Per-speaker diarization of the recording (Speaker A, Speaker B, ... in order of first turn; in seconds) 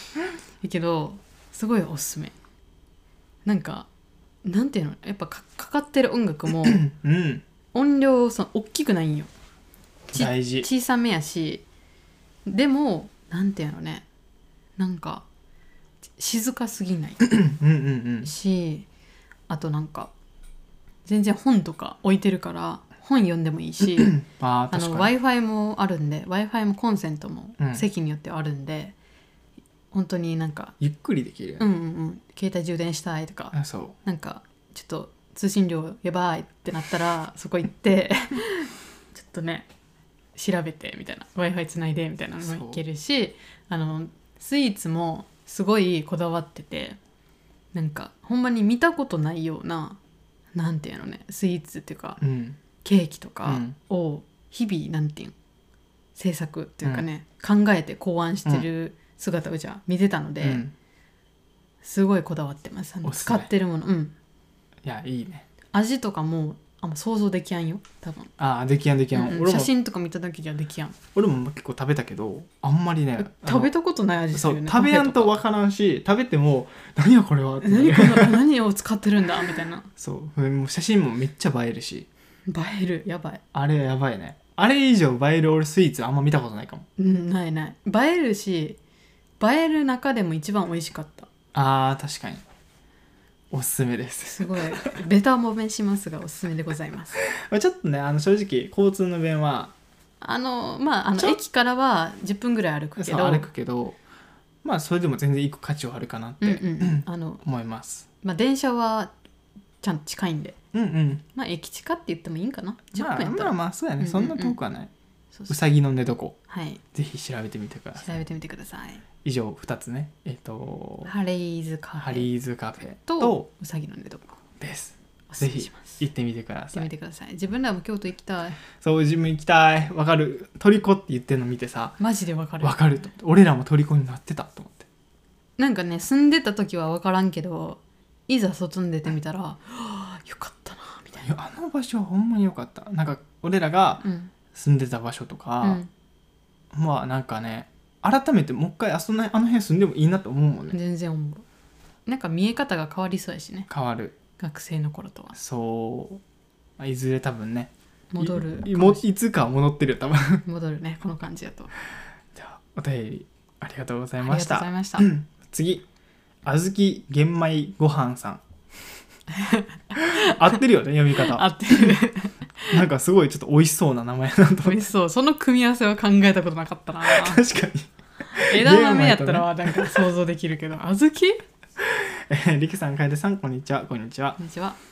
Speaker A: 0.6-2.3, 3.4-3.9, 4.4-6.8, 7.7-9.3, 10.1-11.6, 12.4-14.1, 14.8-15.2, 16.2-17.2, 18.2-18.9, 19.5-20.1, 21.0-24.1, 24.7-28.9, 29.9-30.7, 31.6-39.7, 40.3-47.0, 47.7-50.0, 50.5-52.2, 52.8-55.3, 56.1-60.6, 61.8-64.1, 65.7-68.3, 69.1-71.0, 73.2-75.3, 77.6-79.9, 82.5-83.4, 87.0-88.8, 89.4-91.3, 94.3-97.2, 100.2-103.5, 106.4-107.4, 108.2-109.1, 109.8-110.6, 111.3-114.6, 116.5-116.8, 118.0-119.0, 121.0-122.3, 123.1-124.4, 125.3-126.0, 126.7-128.6, 132.0-132.9, 135.6-141.3, 144.0-144.3, 145.6-145.9, 150.7-151.4, 152.1-153.7, 154.4-155.3, 158.1-159.0, 160.4-161.7, 164.2-165.1, 169.3-170.6, 171.1-172.8, 174.6-177.4, 178.3-181.4, 184.4-184.8
Speaker B: 6.6-7.4, 10.1-10.7, 17.2-18.3, 23.9-25.1, 27.6-27.9, 30.8-31.6, 33.5-34.0, 42.4-42.8, 52.2-52.6, 53.4-53.8, 60.4-60.7, 63.0-63.5, 64.8-65.5, 68.4-69.7, 71.1-73.7, 74.3-78.4, 80.0-82.1, 83.5-86.9, 91.5-92.4, 93.5-95.0, 97.2-99.7, 103.0-104.0, 104.6-108.1, 110.7-111.2, 113.0-114.9, 115.5-116.4, 116.9-118.2, 119.2-121.1, 122.0-123.5, 124.6-126.9, 128.8-132.0, 132.6-134.9, 141.2-145.8, 146.7-150.8, 153.7-154.2, 155.3-156.2, 156.8-160.4, 162.3-165.8, 166.4-168.4, 169.9-171.9, 172.7-174.8, 177.0-180.1, 181.8-184.4